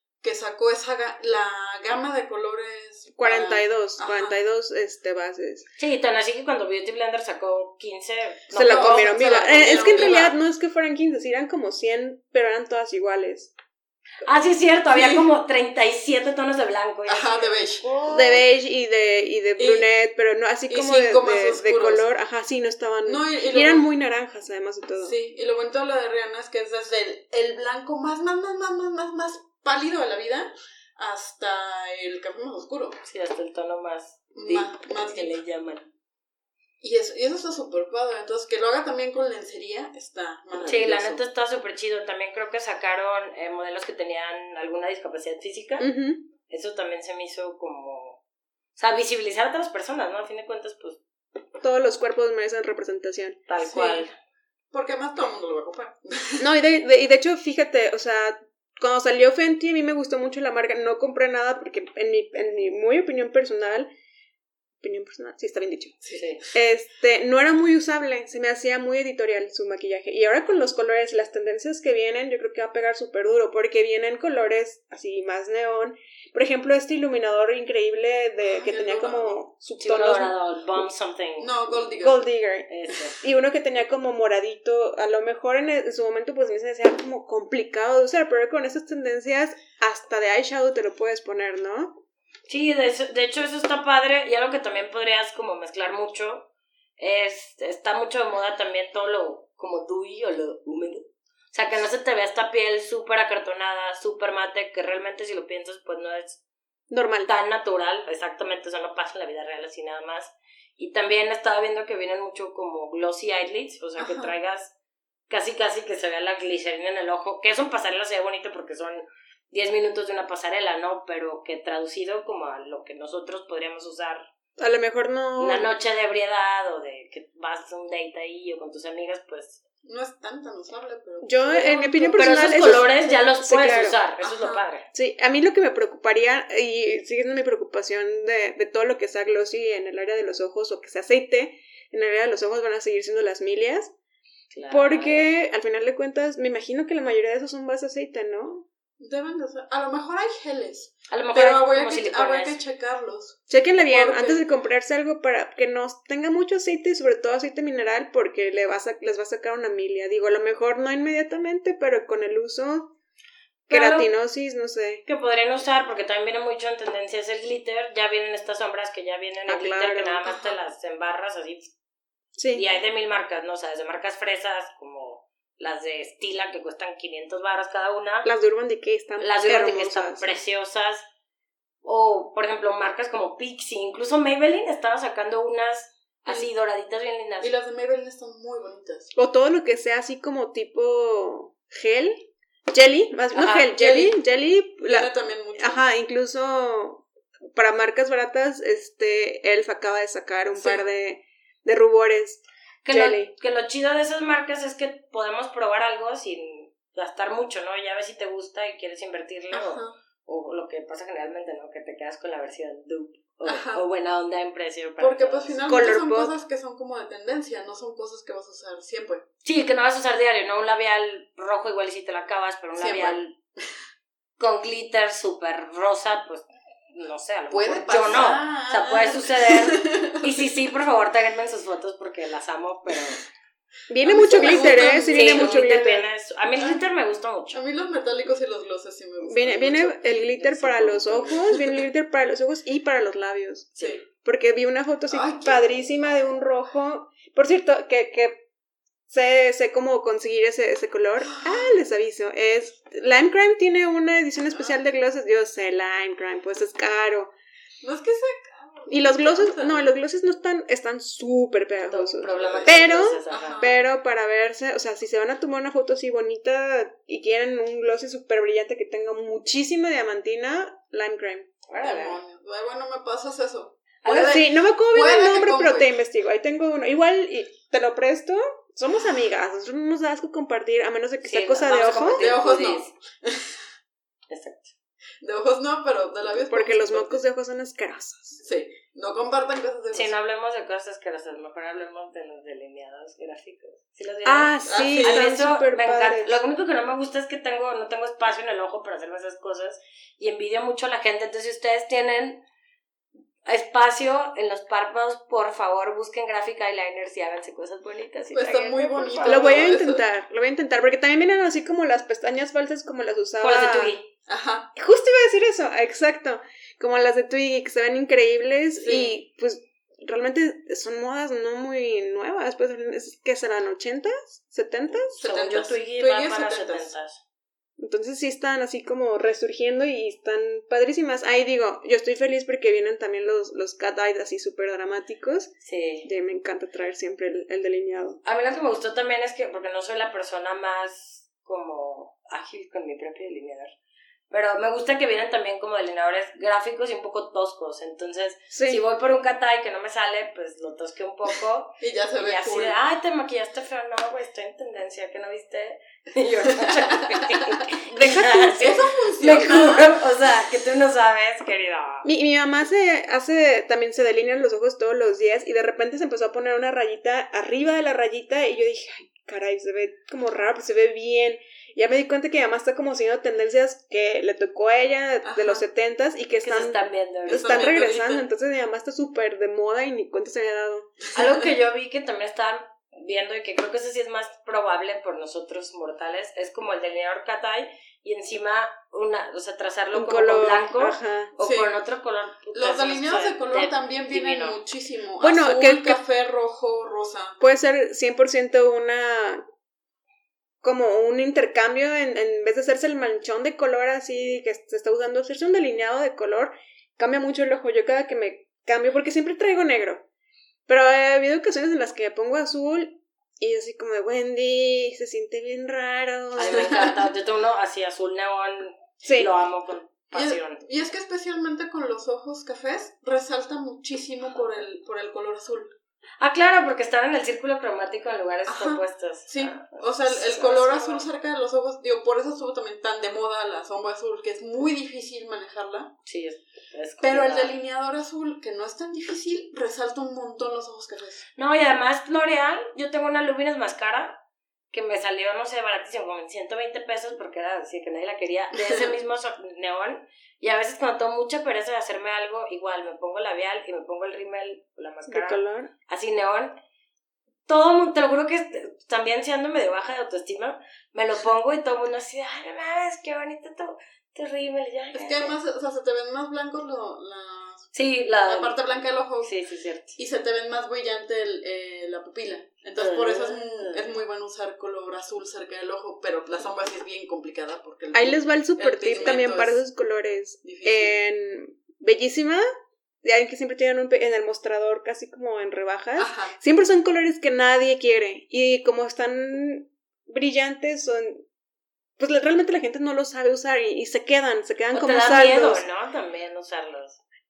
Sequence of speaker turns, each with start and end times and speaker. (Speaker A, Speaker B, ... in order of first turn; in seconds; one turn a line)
Speaker A: 0.2-4.3
Speaker B: 3.2-5.7
Speaker C: 5.8-10.0
Speaker B: 8.5-13.5
Speaker A: 8.6-10.4
Speaker C: 14.2-18.4
Speaker A: 14.9-15.2
Speaker A: 17.1-18.2
Speaker B: 18.1-25.2
Speaker A: 19.6-19.9
Speaker A: 20.7-22.1
Speaker A: 23.1-23.9
Speaker A: 25.0-33.0
Speaker C: 33.0-35.9
Speaker A: 34.4-35.4
Speaker A: 36.8-41.2
Speaker C: 40.6-45.9
Speaker B: 45.8-46.3
Speaker C: 46.5-48.2
Speaker C: 48.8-51.0
Speaker B: 51.6-53.4
Speaker C: 53.5-54.1
Speaker A: 53.6-54.1
Speaker A: 54.7-56.5
Speaker B: 56.4-63.9
Speaker B: 64.8-66.0
Speaker A: 66.0-66.3
Speaker C: 66.2-66.4
Speaker B: 66.5-80.3
Speaker A: 78.5-79.4
Speaker C: 79.8-81.5
Speaker A: 81.4-82.2
Speaker B: 82.0-92.0
Speaker C: 82.7-83.2
Speaker C: 92.5-106.4
Speaker B: 106.9-107.3
Speaker C: 107.3-114.7
Speaker A: 114.0-114.3
Speaker C: 115.3-124.2
Speaker B: 124.6-125.7
Speaker C: 125.4-129.6
Speaker A: 129.8-132.9
Speaker B: 131.2-134.0
Speaker C: 132.2-134.9
Speaker A: 134.2-134.7
Speaker B: 134.9-143.9
Speaker C: 144.5-145.3
Speaker B: 144.7-148.7
Speaker A: 149.0-154.4
Speaker C: 151.1-152.6
Speaker B: 153.5-162.9
Speaker C: 163.7-164.1
Speaker B: 163.7-165.0
Speaker C: 165.1-171.7
Speaker B: 169.5-170.3
Speaker A: 170.3-170.6
Speaker B: 172.4-172.7
Speaker C: 172.5-178.3
Speaker B: 178.2-180.4
Speaker C: 179.2-181.1
Speaker C: 181.8-187.5
Speaker A: 187.4-189.1
Speaker B: 189.2-203.3
Speaker C: 193.3-193.7
Speaker A: 193.6-194.2
Speaker A: 194.8-195.8
Speaker A: 200.6-200.8
Speaker C: 202.8-215.6
Speaker A: 209.5-209.9
Speaker A: 213.5-213.8
Speaker A: 215.0-219.2
Speaker B: 215.7-216.3
Speaker C: 219.4-223.3
Speaker A: 222.8-223.7
Speaker C: 224.4-233.2
Speaker A: 227.5-230.3
Speaker B: 233.9-236.1
Speaker A: 234.0-235.9
Speaker C: 234.4-237.6
Speaker A: 236.6-236.8
Speaker A: 237.5-240.0
Speaker B: 239.2-248.4
Speaker C: 240.2-241.4
Speaker A: 241.3-241.8
Speaker A: 245.1-246.2
Speaker B: 249.1-257.3
Speaker A: 251.3-251.8
Speaker A: 254.5-254.8
Speaker A: 257.8-259.9
Speaker B: 258.9-271.5
Speaker C: 261.9-263.8
Speaker A: 262.3-263.7
Speaker C: 271.7-272.2
Speaker A: 271.8-275.9
Speaker C: 274.0-274.3
Speaker B: 274.1-282.3
Speaker C: 281.2-282.9
Speaker A: 281.9-283.6
Speaker C: 284.3-284.7
Speaker A: 285.2-287.2
Speaker B: 286.5-288.4
Speaker A: 288.4-290.1
Speaker C: 289.9-302.4
Speaker B: 294.2-296.4
Speaker A: 294.6-295.3
Speaker C: 303.5-309.8
Speaker A: 308.3-310.0
Speaker B: 309.2-313.9
Speaker C: 313.4-314.1
Speaker A: 314.3-314.7
Speaker B: 314.8-325.2
Speaker A: 318.8-319.2
Speaker A: 325.2-326.9
Speaker C: 325.2-327.2
Speaker B: 327.8-335.5
Speaker C: 335.6-336.1
Speaker B: 336.1-338.2
Speaker C: 338.2-343.7
Speaker C: 344.3-362.1
Speaker B: 348.5-348.8
Speaker A: 351.8-352.8
Speaker A: 356.6-356.9
Speaker B: 357.9-358.8
Speaker A: 358.6-359.9
Speaker B: 362.1-376.8
Speaker A: 375.2-375.6
Speaker C: 376.4-377.8
Speaker A: 377.3-378.2
Speaker B: 377.4-381.0
Speaker C: 381.1-394.6
Speaker B: 389.9-391.3
Speaker A: 391.4-391.8
Speaker A: 392.5-397.4
Speaker B: 395.2-396.0
Speaker B: 397.4-399.4
Speaker B: 400.6-410.0
Speaker B: 410.7-416.9
Speaker C: 416.4-420.7
Speaker A: 416.5-416.9
Speaker B: 419.0-419.3
Speaker A: 420.1-425.7
Speaker C: 426.2-431.1
Speaker A: 428.5-435.9
Speaker C: 436.1-437.6
Speaker A: 437.0-441.3
Speaker C: 441.4-444.2
Speaker C: 444.7-456.6
Speaker A: 448.5-448.9
Speaker B: 455.1-455.7
Speaker C: 457.5-465.3
Speaker A: 464.9-469.3
Speaker C: 467.7-468.6
Speaker C: 469.2-470.0
Speaker A: 470.0-479.6
Speaker C: 472.8-473.9
Speaker B: 477.9-482.5
Speaker A: 480.4-481.0
Speaker B: 483.0-491.3
Speaker A: 486.0-486.3
Speaker B: 492.0-495.7
Speaker C: 494.7-497.0